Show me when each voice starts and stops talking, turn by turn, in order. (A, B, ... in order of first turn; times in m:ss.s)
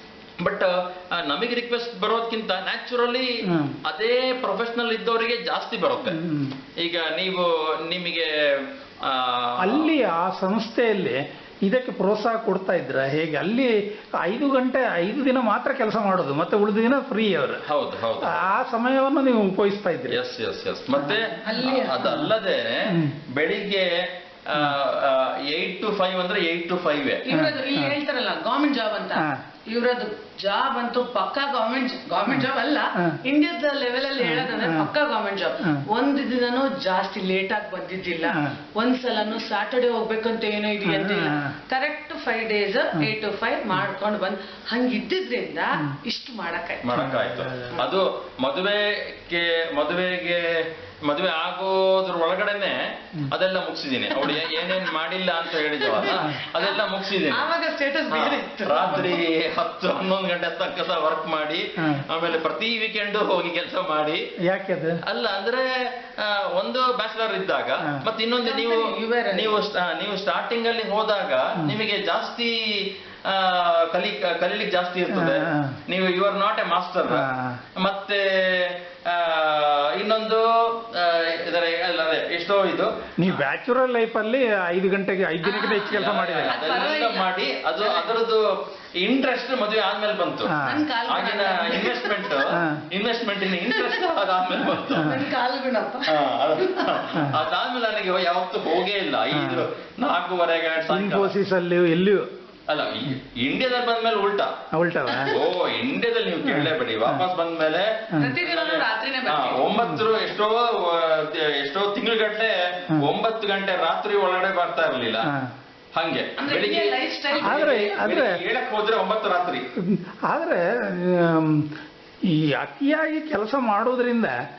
0:00.4-0:06.2 A
0:03.5-0:03.8 B
0:06.0-0:06.6 B
0:06.8-0:09.9 A
0:09.6-0:17.6 B
0:17.7-0:18.5 A
0:18.2-0:20.2 B
0:20.1-0:27.3 A
0:21.0-0:21.2 B
0:21.4-0:22.1 C
0:22.0-0:22.3 B
0:22.9-0:23.1 B
0:27.3-0:46.9 C
0:27.3-0:27.9 B
0:34.2-0:34.9 B
0:40.9-0:41.5 B
0:46.8-0:57.5 A
0:46.9-0:47.9 B
0:54.2-0:54.8 C
0:55.6-0:59.2 C
0:56.1-0:56.4 B
0:58.1-1:04.2 A
1:01.8-1:02.0 B
1:04.5-1:05.0 B
1:05.0-1:23.4 A
1:08.4-1:09.6 C
1:15.1-1:15.8 B
1:17.1-1:17.6 B
1:23.2-1:26.5 B
1:25.4-1:28.1 C
1:25.9-1:28.4 A
1:29.0-1:30.5 A
1:30.5-1:30.8 B
1:30.6-1:32.5 C
1:31.1-1:35.2 A
1:32.5-1:32.8 B
1:33.6-1:34.0 C
1:34.9-1:35.2 B
1:34.9-1:37.1 C
1:36.1-1:41.3 A
1:39.3-1:39.7 B
1:40.9-1:42.2 B
1:42.7-1:44.5 A
1:44.8-1:45.4 B
1:45.3-1:55.3 A
1:46.4-1:47.2 B
1:48.2-1:49.6 C
1:55.9-1:59.6 A
1:56.4-1:57.9 C
1:57.4-1:58.4 B
1:59.8-2:01.7 B
2:02.3-2:04.3 B